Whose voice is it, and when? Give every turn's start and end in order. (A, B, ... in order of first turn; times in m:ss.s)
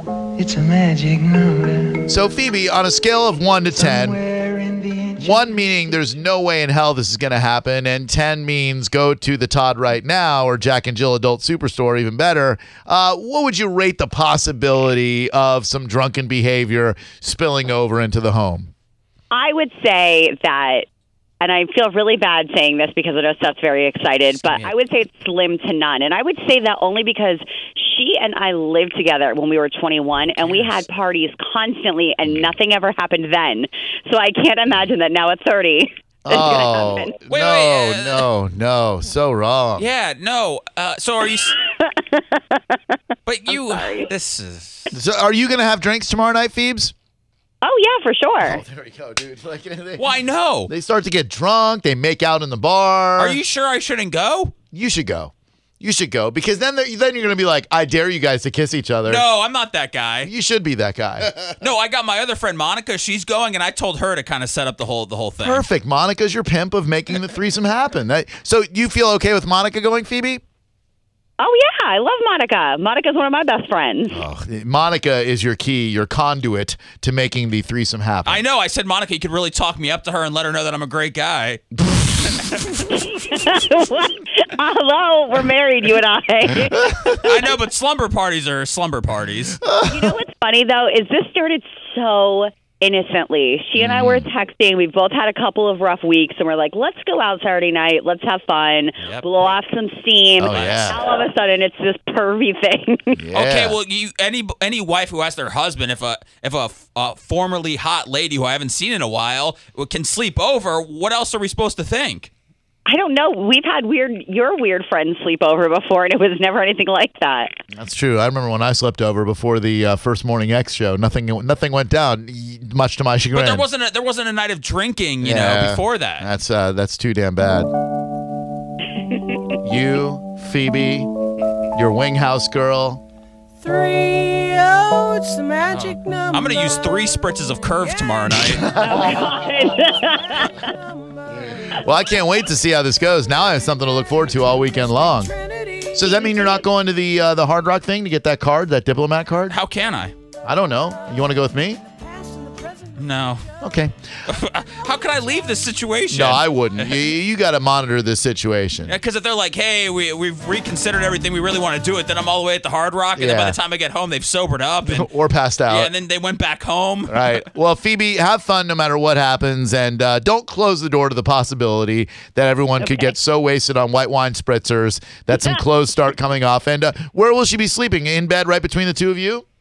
0:00.4-0:02.1 A
0:02.1-0:04.2 B
0:03.8-0:05.5 A
0:05.2-0:18.7 B
0:19.3-0:20.9 C
0:21.4-0:37.1 C
0:32.3-0:32.5 B
0:36.3-0:39.9 B
0:37.3-0:38.3 D
0:39.8-0:41.6 D
0:41.8-0:42.8 C
0:43.3-0:44.9 D
0:43.5-0:44.1 C
0:44.9-0:46.9 B
0:47.6-0:48.6 C
0:48.4-0:50.2 B
0:50.0-0:50.7 D
0:50.7-0:53.4 B
0:53.2-0:54.5 D
0:54.7-0:59.2 B
0:59.1-1:00.3 D
1:00.2-1:01.4 B
1:01.6-1:05.7 D
1:05.4-1:10.4 B
1:11.4-1:14.2 C
1:14.1-1:18.4 B
1:18.3-1:21.6 D
1:21.9-1:22.4 B
1:22.3-1:22.7 D
1:22.9-1:27.5 C
1:26.8-1:27.1 B
1:27.2-1:29.6 D
1:29.6-1:30.2 B
1:29.9-1:43.2 C
1:33.8-1:34.3 B
1:40.4-1:41.0 B
1:40.5-1:41.0 D
1:43.2-1:43.8 B
1:43.3-1:52.3 D
1:52.9-1:57.5 C
1:57.7-2:03.7 B
2:03.3-2:06.3 D
2:05.2-2:07.7 B
2:09.2-2:09.5 C
2:09.6-2:11.1 B
2:11.7-2:13.0 B
2:13.6-2:17.0 E
2:15.7-2:18.7 D
2:17.8-2:18.4 E
2:18.4-2:19.2 B
2:18.8-2:20.7 C
2:20.0-2:21.8 E
2:21.7-2:25.3 B
2:24.8-2:26.6 E
2:25.9-2:29.6 B
2:29.5-2:30.1 D
2:30.4-2:31.8 B
2:32.0-2:33.1 E
2:33.0-2:33.4 D
2:33.6-2:33.9 B
2:34.3-2:37.0 D
2:36.1-2:39.0 B
2:38.9-2:45.1 D
2:43.2-2:43.6 B
2:44.8-2:45.9 B
2:45.7-2:47.4 D
2:47.1-2:59.4 B
2:52.8-2:53.1 C